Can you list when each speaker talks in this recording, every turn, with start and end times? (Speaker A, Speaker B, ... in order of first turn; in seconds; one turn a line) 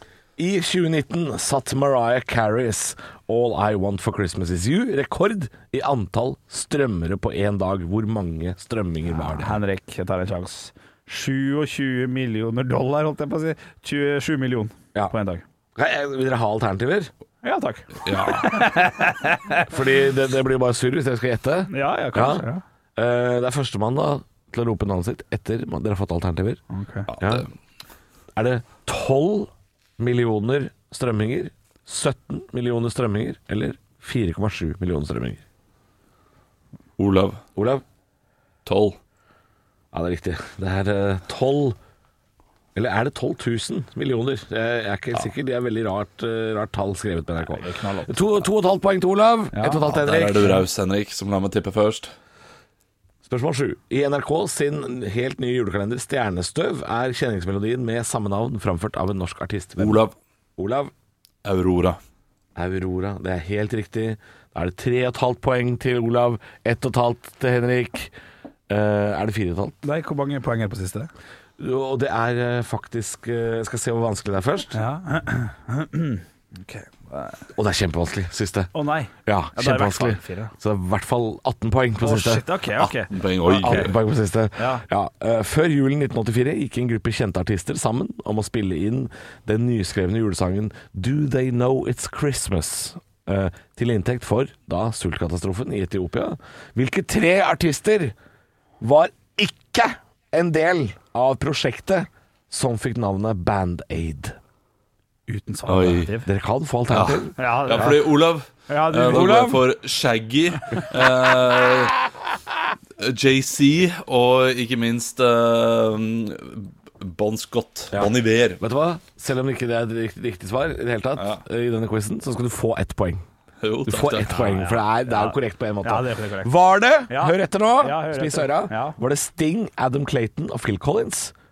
Speaker A: 0.4-9.6
Speaker B: 9.1-15.4
Speaker A: 15.8-17.1
Speaker B: 17.4-19.7
Speaker C: 18.0-18.6
Speaker A: 19.7-26.6
Speaker B: 21.7-22.6
Speaker B: 26.7-27.1
Speaker C: 27.1-27.5
Speaker A: 27.2-27.5
Speaker A: 28.3-35.4
Speaker C: 37.0-37.4
Speaker A: 37.5-37.8
Speaker C: 38.6-39.0
Speaker A: 39.9-41.8
Speaker A: 42.7-50.6
Speaker B: 47.4-48.2
Speaker B: 49.5-49.8
Speaker C: 49.9-52.1
Speaker A: 53.2-60.0
Speaker C: 59.8-60.1
Speaker A: 60.6-60.9
Speaker C: 61.4-62.0
Speaker A: 62.5-68.1
Speaker A: 68.7-69.8
Speaker B: 69.8-71.1
Speaker A: 71.6-74.8
Speaker B: 74.7-77.4
Speaker A: 77.5-78.7
Speaker B: 78.7-80.5
Speaker A: 79.2-82.5
Speaker B: 82.0-83.9
Speaker C: 82.8-83.9
Speaker A: 83.5-98.1
Speaker B: 84.6-84.8
Speaker A: 98.8-104.3
Speaker B: 105.3-106.3
Speaker C: 105.7-106.1
Speaker A: 106.2-108.0
Speaker C: 106.9-112.0
Speaker B: 107.4-108.0
Speaker B: 108.7-109.7
Speaker C: 113.0-118.6
Speaker A: 117.9-123.2
Speaker C: 121.2-121.4
Speaker C: 123.6-124.8
Speaker A: 123.8-131.3
Speaker B: 125.0-126.5
Speaker B: 127.1-129.0